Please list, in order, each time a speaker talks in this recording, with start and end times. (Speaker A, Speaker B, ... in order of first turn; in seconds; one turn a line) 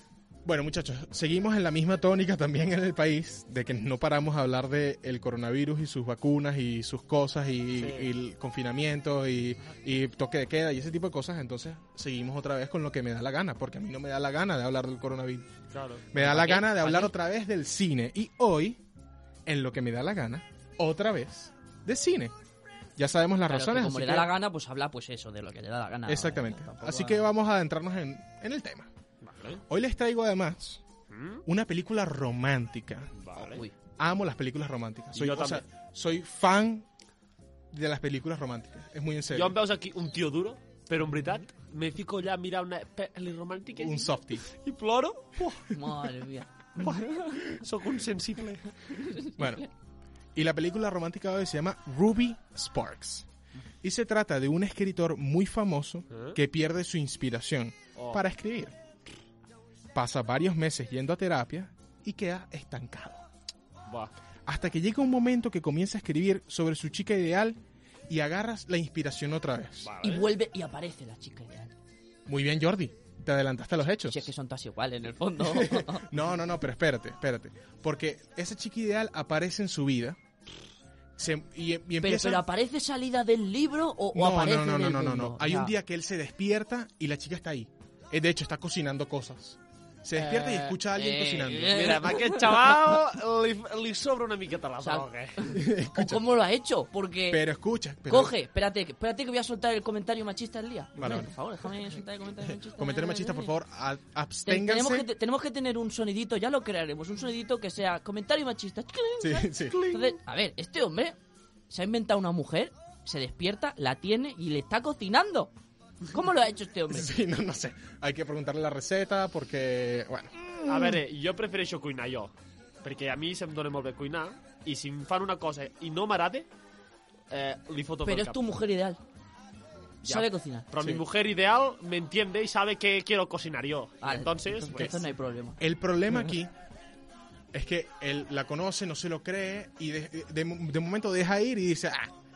Speaker A: 0.5-15.5
Speaker B: 7.8-8.1
Speaker B: 15.7-16.1
Speaker A: 16.1-18.8
Speaker C: 16.1-17.1
Speaker A: 19.5-22.3
Speaker A: 23.0-24.3
Speaker C: 23.5-27.3
Speaker A: 26.1-28.9
Speaker B: 29.2-29.6
Speaker A: 29.7-30.8
Speaker B: 31.1-31.4
Speaker A: 31.5-36.9
Speaker B: 33.2-33.6
Speaker B: 35.1-35.6
Speaker A: 37.7-39.6
Speaker B: 39.3-45.7
Speaker A: 43.8-44.4
Speaker C: 45.7-47.5
Speaker B: 46.8-49.0
Speaker C: 49.0-49.6
Speaker A: 49.4-49.7
Speaker A: 50.4-53.3
Speaker A: 53.8-58.8
Speaker B: 56.1-56.4
Speaker B: 58.0-58.2
Speaker A: 59.9-63.2
Speaker B: 63.9-64.1
Speaker A: 64.5-69.9
Speaker B: 69.8-70.3
Speaker C: 70.0-71.7
Speaker A: 72.3-74.3
Speaker C: 74.1-76.1
Speaker A: 75.4-80.2
Speaker A: 81.2-82.5
Speaker C: 82.0-85.7
Speaker A: 84.1-92.0
Speaker B: 90.1-90.8
Speaker C: 90.9-92.7
Speaker B: 91.6-95.6
Speaker C: 94.8-97.5
Speaker A: 95.5-96.3
Speaker A: 97.3-98.4
Speaker C: 98.1-103.5
Speaker A: 101.0-101.7
Speaker A: 102.5-105.1
Speaker C: 104.5-111.2
Speaker A: 109.2-109.9
Speaker B: 109.7-110.1
Speaker C: 111.7-115.5
Speaker C: 116.1-117.1
Speaker A: 116.9-121.0
Speaker B: 120.7-126.5
Speaker B: 127.3-128.4
Speaker C: 128.1-129.0
Speaker C: 130.0-130.7
Speaker B: 130.0-135.0
Speaker C: 134.0-135.6
Speaker A: 135.6-136.5
Speaker A: 137.5-142.1